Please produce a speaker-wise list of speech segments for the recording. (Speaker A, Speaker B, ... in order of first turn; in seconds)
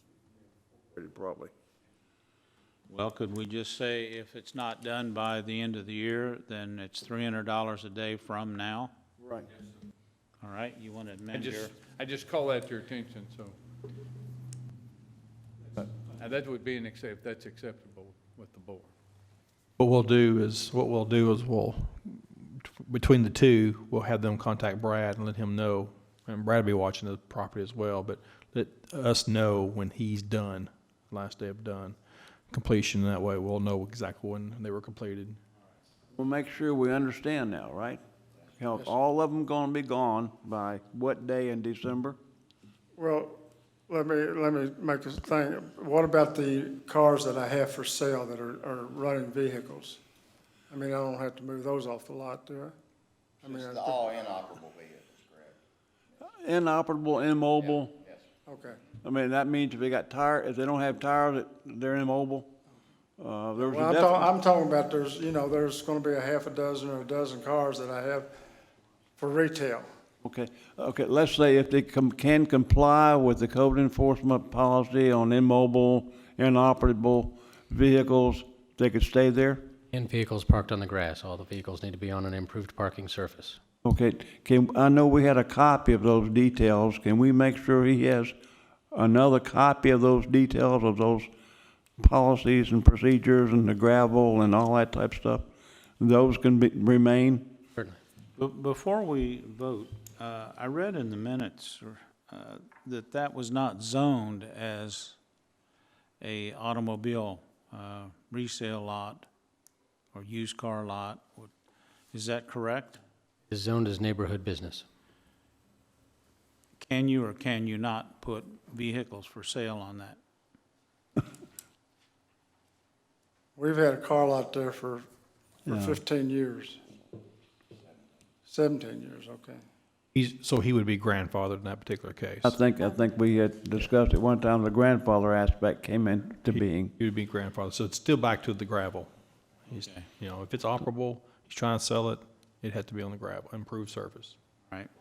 Speaker A: 0.9-1.5, 9.2-9.5, 36.1-38.0, 38.6-42.2, 56.4-57.9, 59.0-62.5, 63.2-64.3, 70.2-79.7, 83.8-88.3, 88.9-91.3, 92.0-95.5, 96.0-97.5, 125.7-126.0, 132.4-136.9
Speaker B: 2.9-8.9, 10.4-11.8, 98.4-105.2, 106.2-109.3, 110.1-111.5, 112.1-113.0, 116.8-120.2, 139.7-140.1
Speaker C: 11.3-13.6, 16.2-18.9
Speaker D: 19.8-32.0, 32.5-35.4, 130.1-132.6, 136.5-139.1, 139.7-144.3
Speaker E: 43.0-43.3, 43.9-50.0, 50.7-52.7, 53.4-54.1, 58.5-58.8, 63.6-68.3, 69.2-69.8, 123.5-125.0, 125.7-126.8, 128.4-129.6
Speaker F: 53.5-55.5, 57.7-58.2
Speaker G: 79.9-83.6, 113.5-114.8